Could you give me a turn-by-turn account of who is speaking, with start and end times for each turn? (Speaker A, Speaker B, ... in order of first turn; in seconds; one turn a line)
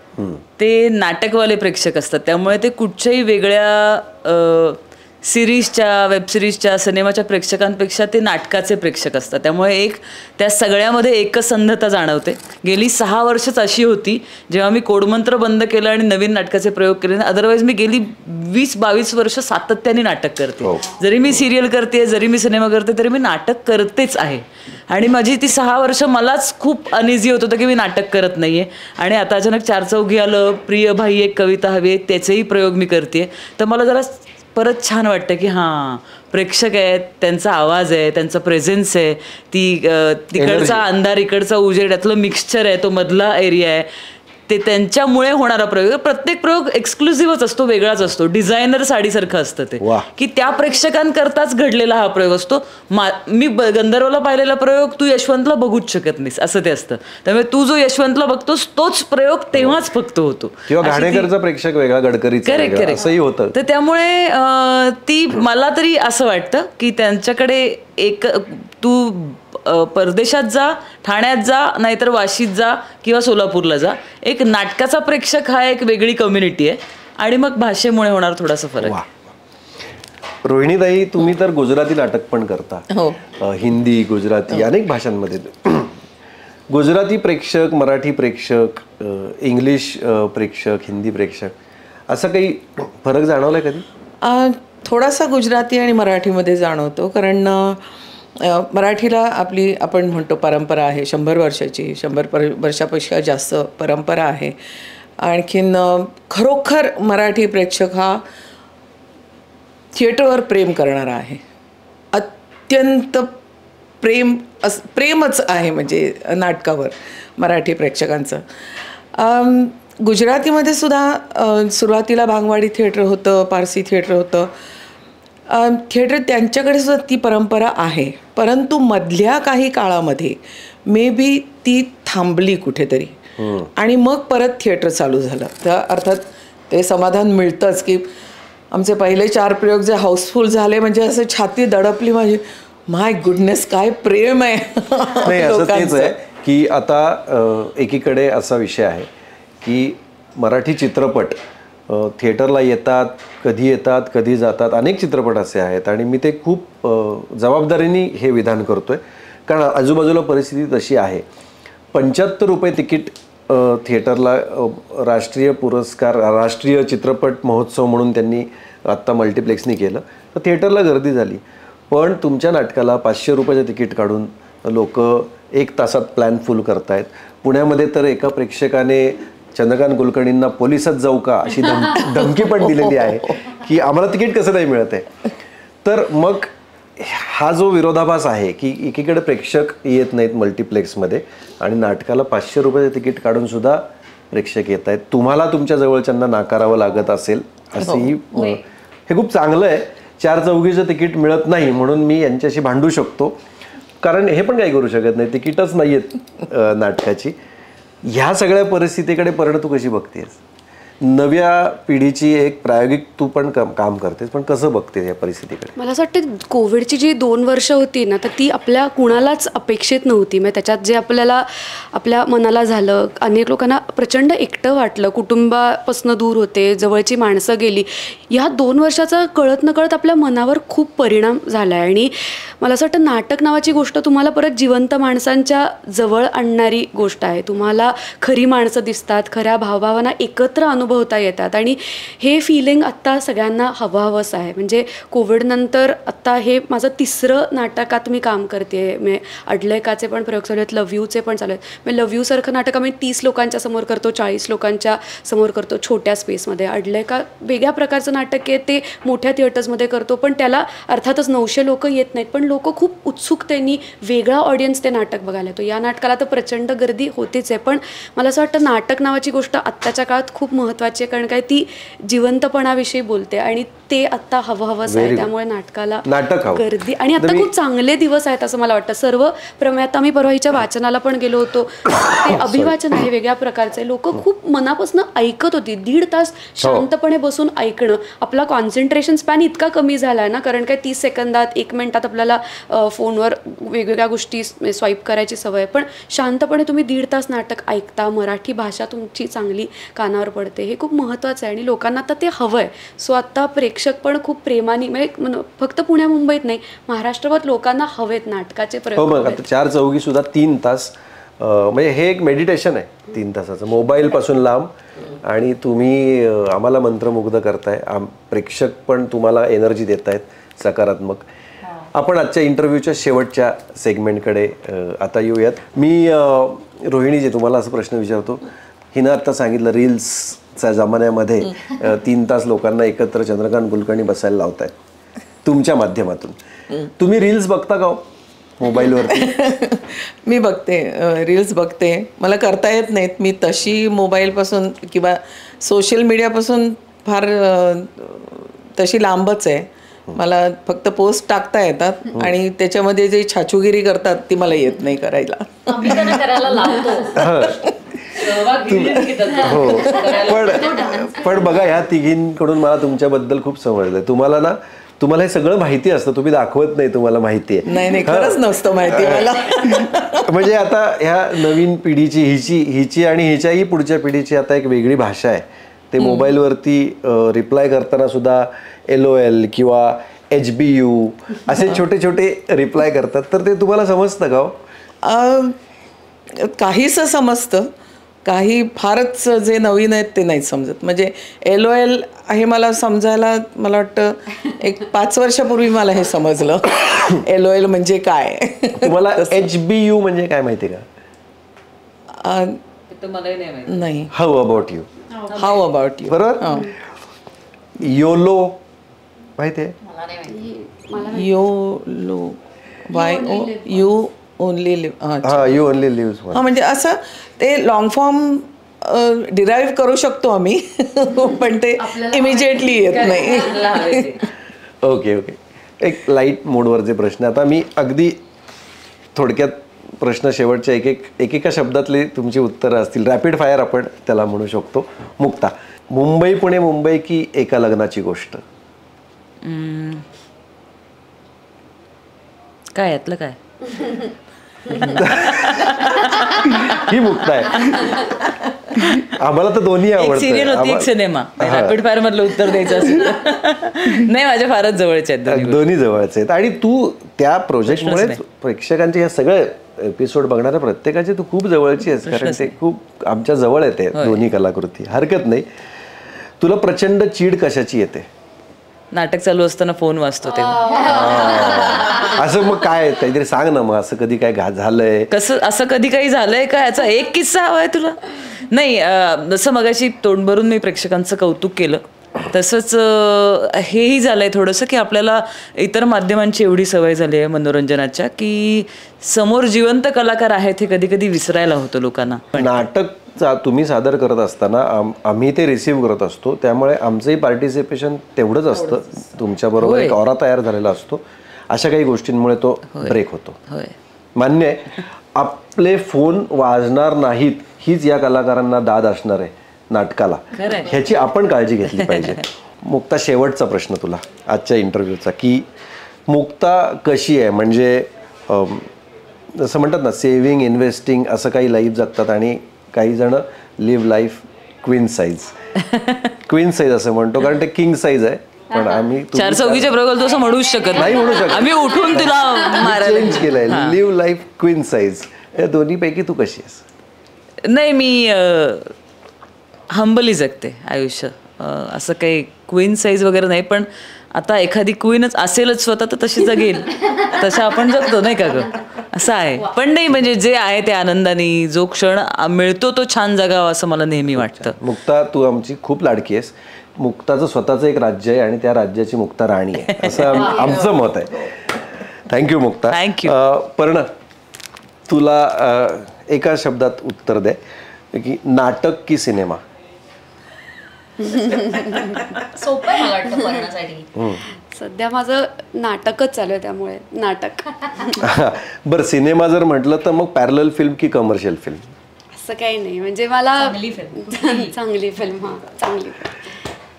Speaker A: 0.2-0.4
Speaker B: 0.6-43.9
Speaker A: 20.6-21.5
Speaker A: 40.3-40.8
Speaker B: 44.5-61.3
Speaker A: 49.8-50.1
Speaker A: 59.5-59.8
Speaker A: 60.7-63.6
Speaker B: 62.5-79.0
Speaker A: 78.8-79.3
Speaker A: 80.4-86.0
Speaker C: 82.9-83.2
Speaker A: 86.7-91.5
Speaker A: 92.1-93.9
Speaker C: 94.2-104.6
Speaker C: 105.2-108.2
Speaker C: 109.9-111.4
Speaker C: 112.1-113.4
Speaker C: 114.0-124.5
Speaker C: 125.5-133.2
Speaker A: 133.4-133.7
Speaker C: 133.8-138.1
Speaker C: 138.7-146.1
Speaker A: 145.2-149.1
Speaker A: 149.6-161.2
Speaker A: 161.9-185.1
Speaker A: 185.8-203.4
Speaker C: 197.8-198.6
Speaker A: 204.0-207.3
Speaker A: 208.0-210.4
Speaker A: 211.0-215.7
Speaker D: 215.8-309.4
Speaker A: 274.9-275.3
Speaker A: 276.1-276.6
Speaker A: 277.2-277.5
Speaker A: 282.0-282.8
Speaker A: 286.6-286.9
Speaker A: 308.9-321.3
Speaker A: 321.9-334.8
Speaker A: 335.4-336.4
Speaker A: 336.9-338.1
Speaker A: 338.6-339.3
Speaker C: 339.1-356.4
Speaker E: 355.7-357.2
Speaker A: 357.1-384.6
Speaker C: 357.3-360.2
Speaker B: 358.2-360.6
Speaker C: 367.7-370.3
Speaker C: 385.0-385.6
Speaker C: 386.4-387.7
Speaker C: 388.2-399.5
Speaker A: 398.8-400.9
Speaker C: 402.2-402.6
Speaker B: 402.9-403.9
Speaker C: 403.7-404.1
Speaker A: 404.1-404.9
Speaker C: 405.3-406.7
Speaker A: 406.1-406.7
Speaker A: 407.8-408.6
Speaker A: 409.4-409.8
Speaker E: 410.0-410.3
Speaker D: 410.3-411.2
Speaker C: 411.0-415.6
Speaker A: 415.2-416.5
Speaker C: 416.3-424.2
Speaker B: 423.0-424.2
Speaker A: 424.8-428.2
Speaker A: 429.1-438.4
Speaker B: 439.4-440.0
Speaker B: 442.8-443.4
Speaker B: 444.7-446.9
Speaker A: 444.7-448.2
Speaker B: 448.8-449.0
Speaker A: 448.9-451.8
Speaker B: 450.0-455.6
Speaker A: 452.7-453.0
Speaker A: 455.3-465.5
Speaker B: 457.7-458.2
Speaker B: 462.1-462.5
Speaker B: 463.9-464.2
Speaker A: 466.4-468.1
Speaker B: 468.9-470.9
Speaker A: 470.8-475.1
Speaker B: 475.1-492.6
Speaker A: 492.3-503.4
Speaker B: 499.6-500.0
Speaker B: 502.7-503.8
Speaker A: 504.2-515.5
Speaker B: 510.4-510.8
Speaker B: 511.9-512.2
Speaker A: 516.1-518.7
Speaker A: 519.3-525.3
Speaker B: 525.7-526.0
Speaker A: 526.2-529.8
Speaker B: 529.1-533.8
Speaker A: 530.7-536.6
Speaker B: 537.5-538.7
Speaker B: 539.7-554.6
Speaker A: 554.2-563.9
Speaker B: 559.8-560.1
Speaker B: 562.7-563.2
Speaker A: 564.9-567.4
Speaker A: 567.9-569.4
Speaker D: 571.0-572.2
Speaker E: 572.3-573.9
Speaker D: 572.8-573.5
Speaker D: 574.5-578.1
Speaker A: 578.0-581.7
Speaker D: 582.1-586.4
Speaker E: 583.5-584.5